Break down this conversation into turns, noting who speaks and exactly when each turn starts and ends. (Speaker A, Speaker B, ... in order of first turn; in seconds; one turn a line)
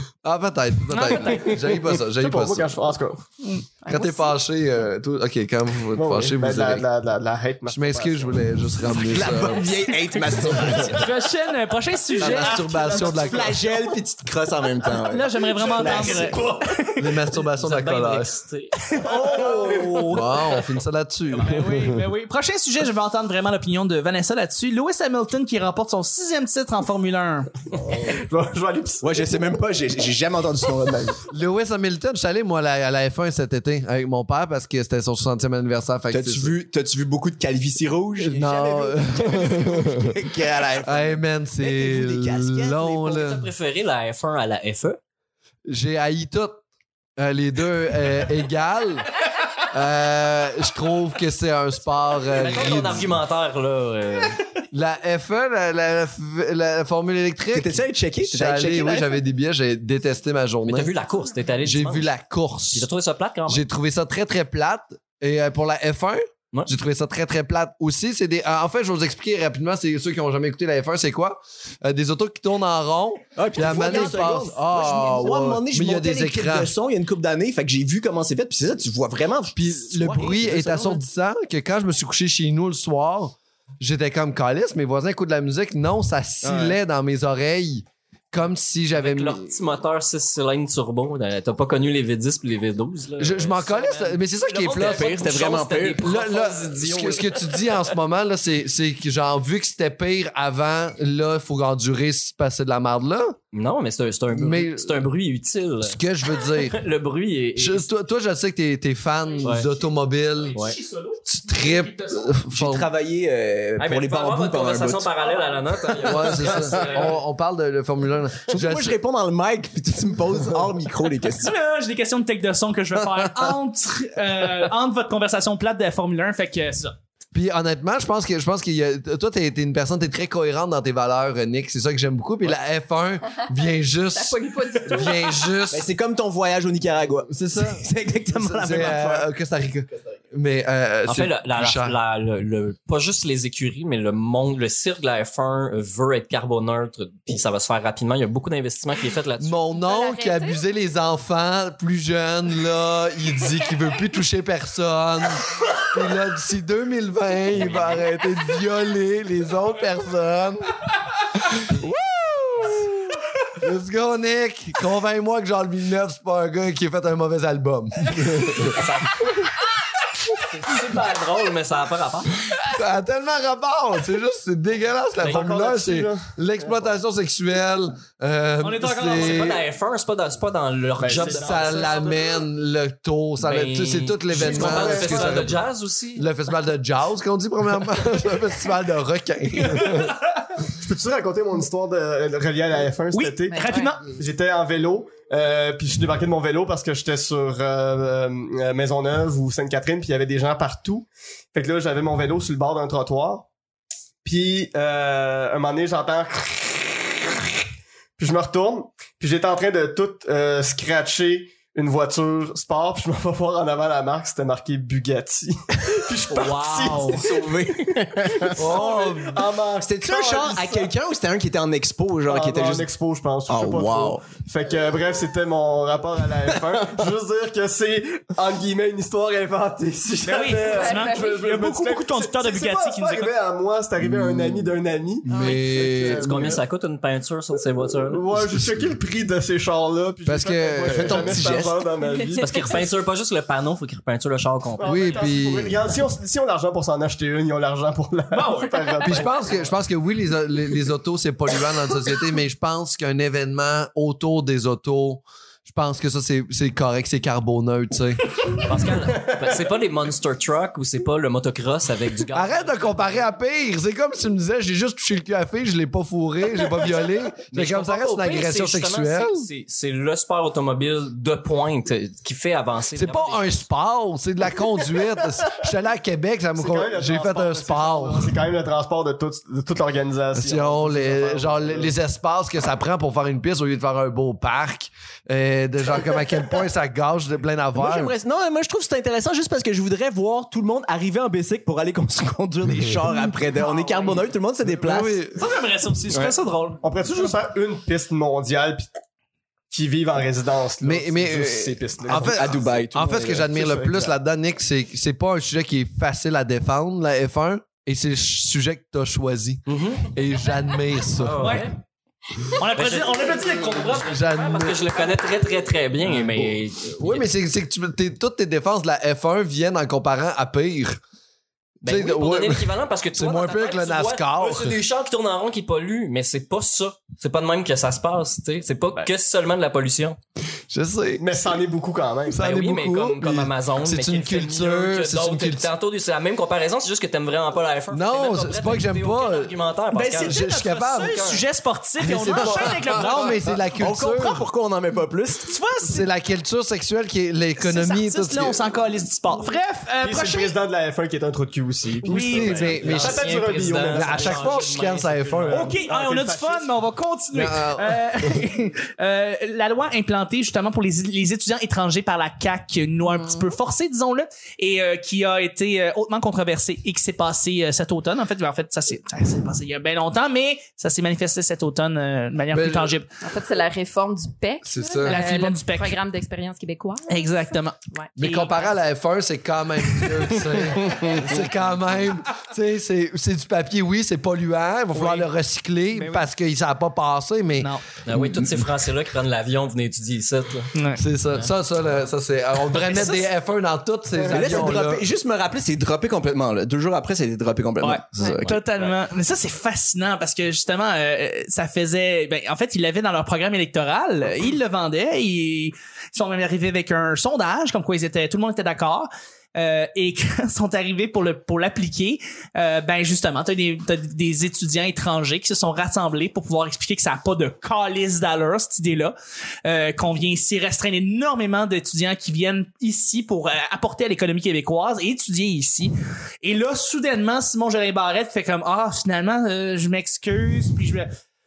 Speaker A: 0.2-2.8
Speaker B: 0.9-1.6
Speaker C: 1.2-3.2
Speaker D: 3.5-4.3
Speaker A: 3.9-6.8
Speaker C: 5.9-8.4
Speaker A: 7.7-9.8
Speaker E: 9.0-11.1
Speaker B: 10.4-13.1
Speaker A: 10.5-10.9
Speaker A: 12.2-13.6
Speaker C: 12.2-13.7
Speaker E: 12.4-16.4
Speaker B: 14.9-17.1
Speaker C: 15.6-16.8
Speaker A: 17.0-18.4
Speaker F: 17.5-18.8
Speaker B: 18.9-20.6
Speaker C: 19.0-20.1
Speaker E: 19.4-20.1
Speaker A: 20.1-22.0
Speaker B: 21.3-27.5
Speaker C: 27.7-29.4
Speaker E: 29.0-31.2
Speaker A: 31.3-36.5
Speaker E: 36.1-43.3
Speaker A: 38.2-40.2
Speaker A: 40.8-43.5
Speaker F: 43.0-45.0
Speaker A: 45.7-46.6
Speaker A: 47.2-49.1
Speaker A: 49.7-53.2
Speaker F: 52.3-54.4
Speaker A: 54.7-60.9
Speaker E: 57.5-59.1
Speaker F: 60.6-62.1
Speaker A: 61.6-62.9
Speaker F: 62.7-63.6
Speaker A: 63.5-76.7
Speaker E: 73.3-81.0
Speaker A: 79.5-89.5
Speaker E: 86.4-86.8
Speaker F: 88.9-97.8
Speaker A: 93.2-95.1
Speaker E: 94.8-96.1
Speaker A: 96.0-103.4
Speaker F: 103.5-107.9
Speaker A: 104.3-105.1
Speaker A: 105.8-106.8
Speaker A: 107.6-110.6
Speaker F: 109.4-109.7
Speaker B: 110.4-112.3
Speaker A: 111.2-112.9
Speaker E: 112.5-115.2
Speaker F: 113.8-117.2
Speaker A: 116.0-119.0
Speaker E: 116.3-116.7
Speaker B: 116.4-117.1
Speaker E: 118.5-121.5
Speaker B: 121.4-126.9
Speaker A: 127.3-135.9
Speaker D: 134.1-135.5
Speaker E: 135.7-139.3
Speaker A: 137.3-141.9
Speaker F: 141.1-149.6
Speaker A: 149.4-160.8
Speaker D: 149.8-150.6
Speaker F: 157.5-158.0
Speaker A: 161.5-162.9
Speaker A: 163.6-168.8
Speaker F: 168.5-169.3
Speaker F: 170.4-172.3
Speaker A: 172.6-179.6
Speaker C: 175.2-176.9
Speaker B: 178.6-179.6
Speaker F: 179.1-182.1
Speaker C: 181.0-182.2
Speaker A: 181.2-185.6
Speaker F: 183.4-186.3
Speaker C: 184.3-185.5
Speaker A: 186.2-190.1
Speaker B: 189.7-190.1
Speaker C: 190.7-203.5
Speaker B: 193.1-194.1
Speaker D: 193.5-194.0
Speaker C: 204.2-207.3
Speaker C: 208.2-220.9
Speaker E: 216.3-218.8
Speaker A: 218.6-219.4
Speaker E: 219.8-222.9
Speaker C: 222.3-236.6
Speaker E: 223.5-224.4
Speaker B: 230.2-233.3
Speaker D: 230.6-231.3
Speaker A: 234.0-234.7
Speaker A: 235.2-236.6
Speaker F: 235.9-238.2
Speaker C: 238.1-242.8
Speaker A: 240.2-241.6
Speaker E: 240.8-241.8
Speaker D: 242.0-242.8
Speaker F: 242.4-245.2
Speaker C: 244.8-249.7
Speaker A: 244.8-245.8
Speaker B: 248.3-249.2
Speaker A: 249.0-258.4
Speaker F: 258.6-263.2
Speaker C: 259.1-259.5
Speaker A: 262.3-269.5
Speaker F: 267.5-273.7
Speaker A: 272.9-278.4
Speaker C: 276.6-281.9
Speaker A: 280.3-288.1
Speaker E: 287.8-295.2
Speaker B: 293.5-294.2
Speaker A: 294.6-295.4
Speaker B: 295.3-297.3
Speaker C: 296.8-298.9
Speaker C: 299.7-302.8
Speaker A: 300.8-311.6
Speaker E: 302.1-303.5
Speaker C: 303.5-304.1
Speaker F: 309.7-310.1
Speaker F: 311.2-311.7
Speaker B: 311.4-311.6
Speaker B: 312.5-314.2
Speaker F: 312.7-317.3
Speaker A: 314.0-315.0
Speaker A: 316.0-321.0
Speaker A: 321.8-324.8
Speaker F: 321.8-330.2
Speaker A: 330.7-331.4
Speaker C: 331.2-332.5
Speaker A: 332.3-335.7
Speaker F: 332.4-340.4
Speaker A: 337.9-339.5
Speaker B: 339.9-343.6
Speaker A: 340.2-341.4
Speaker A: 342.0-344.4
Speaker E: 342.3-342.7
Speaker E: 343.7-345.6
Speaker B: 345.4-346.1
Speaker A: 345.8-348.6
Speaker B: 347.6-350.6
Speaker C: 350.0-354.7
Speaker B: 352.0-353.1
Speaker A: 352.0-355.8
Speaker F: 352.5-355.7
Speaker B: 355.5-373.1
Speaker C: 355.8-356.7
Speaker A: 357.3-358.4
Speaker D: 363.1-363.4
Speaker A: 372.5-372.9
Speaker D: 373.2-378.1
Speaker A: 374.6-375.2
Speaker B: 375.0-376.0
Speaker B: 377.1-378.7
Speaker A: 378.2-388.6
Speaker B: 384.9-385.3
Speaker B: 385.9-386.2
Speaker B: 387.6-387.8
Speaker F: 388.0-390.7
Speaker B: 390.7-391.0
Speaker A: 391.0-395.1
Speaker B: 392.9-393.2
Speaker C: 394.2-394.8
Speaker E: 394.2-398.6
Speaker B: 397.8-431.1